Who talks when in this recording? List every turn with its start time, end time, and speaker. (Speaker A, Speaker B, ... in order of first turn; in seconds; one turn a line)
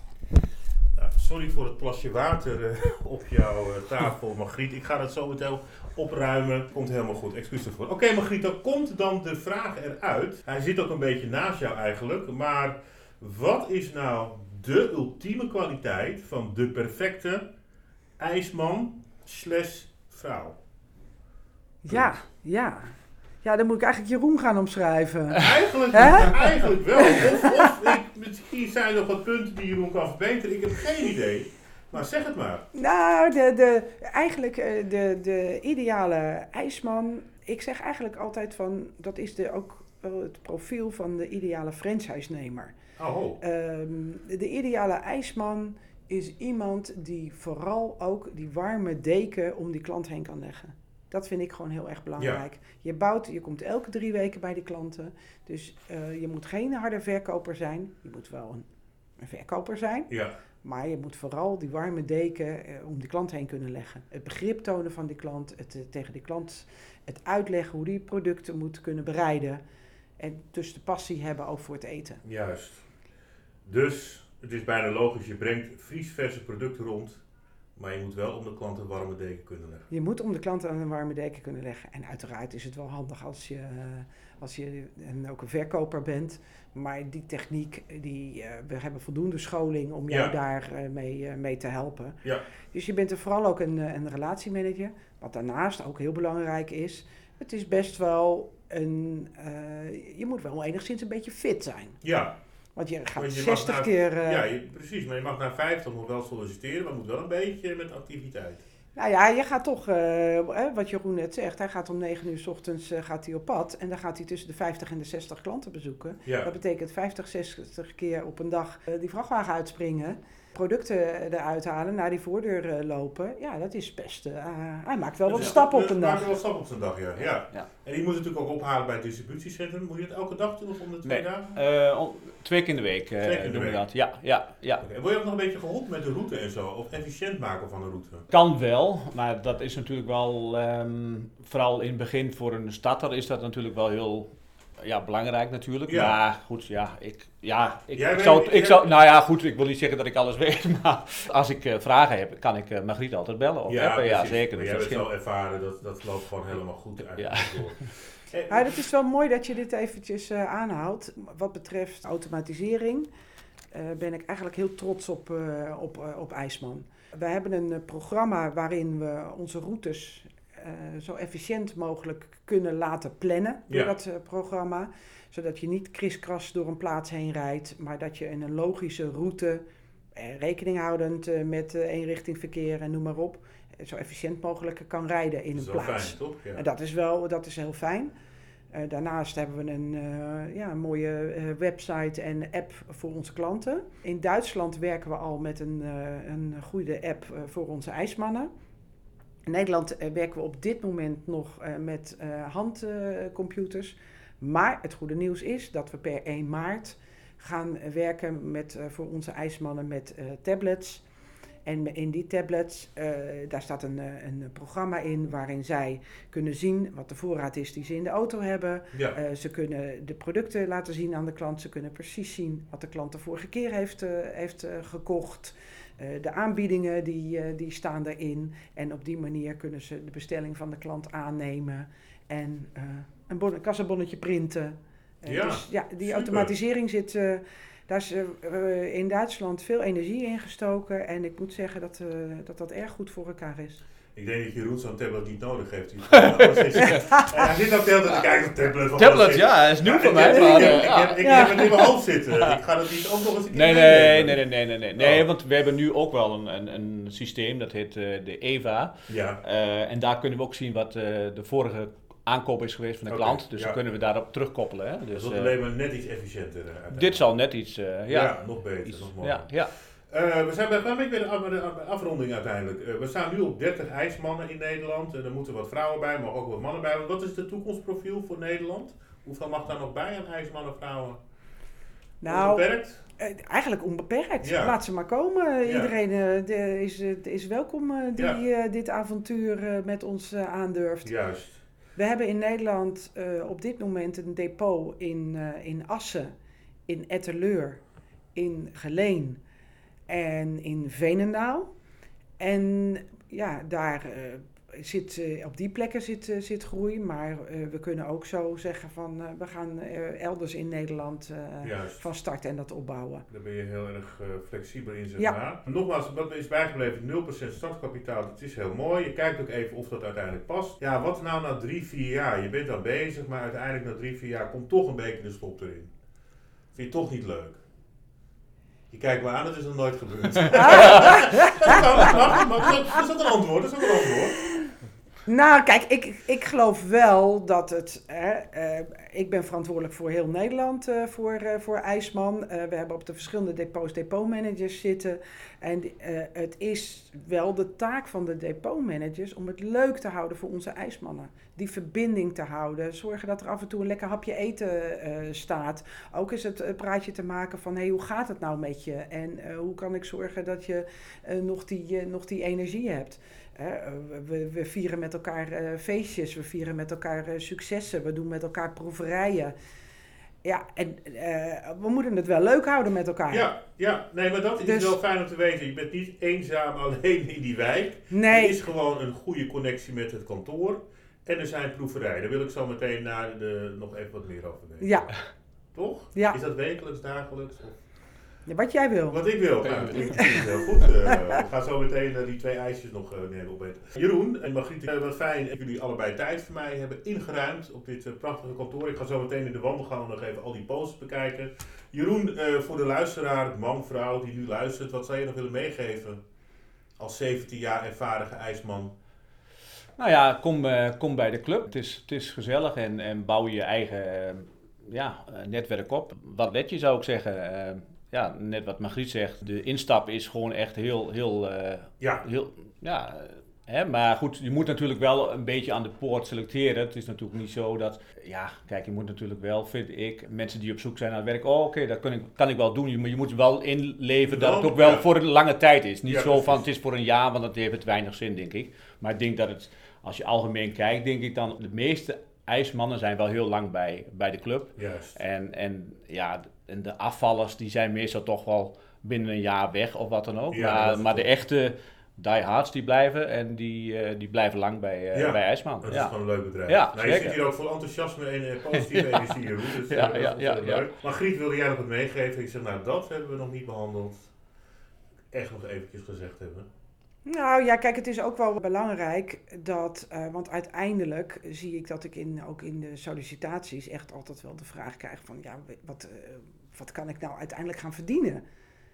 Speaker A: 0.9-17.4
Speaker A: 18.2-20.6
Speaker B: 21.8-27.8
Speaker A: 21.9-22.1
Speaker A: 25.3-32.6
Speaker B: 32.7-42.7
Speaker A: 43.0-43.4
Speaker B: 43.4-58.7
Speaker B: 59.2-69.6
Speaker B: 70.2-72.2
Speaker A: 72.2-72.9
Speaker A: 73.6-77.2
Speaker A: 77.8-79.9
Speaker B: 79.9-92.2
Speaker A: 90.1-90.3
Speaker B: 92.7-102.0
Speaker A: 102.0-102.3
Speaker B: 102.8-104.4
Speaker A: 103.2-108.6
Speaker B: 109.0-126.3
Speaker A: 116.2-116.5
Speaker A: 125.2-131.6
Speaker C: 131.0-134.8
Speaker A: 133.2-133.8
Speaker A: 134.8-138.2
Speaker C: 138.3-155.0
Speaker A: 145.9-146.2
Speaker A: 147.9-148.8
Speaker A: 153.7-158.7
Speaker C: 157.2-157.7
Speaker B: 158.5-163.1
Speaker B: 163.7-179.6
Speaker B: 180.1-188.1
Speaker A: 185.5-186.6
Speaker B: 188.7-198.5
Speaker B: 199.5-211.0
Speaker B: 211.6-243.8
Speaker A: 235.2-236.5
Speaker A: 244.1-254.4
Speaker C: 246.1-247.1
Speaker C: 248.9-251.8
Speaker B: 250.3-251.5
Speaker C: 253.5-265.5
Speaker A: 255.0-255.2
Speaker A: 259.1-259.4
Speaker A: 263.1-263.8
Speaker A: 265.1-267.2
Speaker C: 266.9-269.7
Speaker A: 268.1-269.5
Speaker A: 270.1-281.2
Speaker B: 282.2-282.7
Speaker A: 282.3-283.0
Speaker B: 283.2-291.1
Speaker A: 284.4-284.8
Speaker A: 285.6-285.9
Speaker A: 291.0-291.6
Speaker B: 291.9-296.3
Speaker B: 296.9-297.8
Speaker B: 298.4-299.4
Speaker B: 300.1-301.7
Speaker B: 302.4-313.2
Speaker A: 311.6-312.0
Speaker A: 313.3-325.9
Speaker A: 326.7-327.6
Speaker A: 328.9-334.4
Speaker B: 330.5-333.0
Speaker B: 335.2-369.5
Speaker B: 370.4-373.5
Speaker A: 373.3-385.2
Speaker B: 374.6-375.0
Speaker B: 378.1-378.6
Speaker B: 384.8-385.1
Speaker A: 385.7-387.8
Speaker B: 388.4-389.2
Speaker A: 389.1-406.2
Speaker C: 389.6-390.4
Speaker B: 391.1-391.4
Speaker A: 407.0-408.9
Speaker C: 410.0-456.1
Speaker A: 434.3-435.0
Speaker A: 436.0-436.6
Speaker A: 444.8-445.1
Speaker A: 450.5-451.3
Speaker A: 455.1-464.3
Speaker C: 456.6-457.4
Speaker C: 458.7-459.3
Speaker C: 459.9-460.9
Speaker A: 465.3-466.7
Speaker B: 467.2-478.4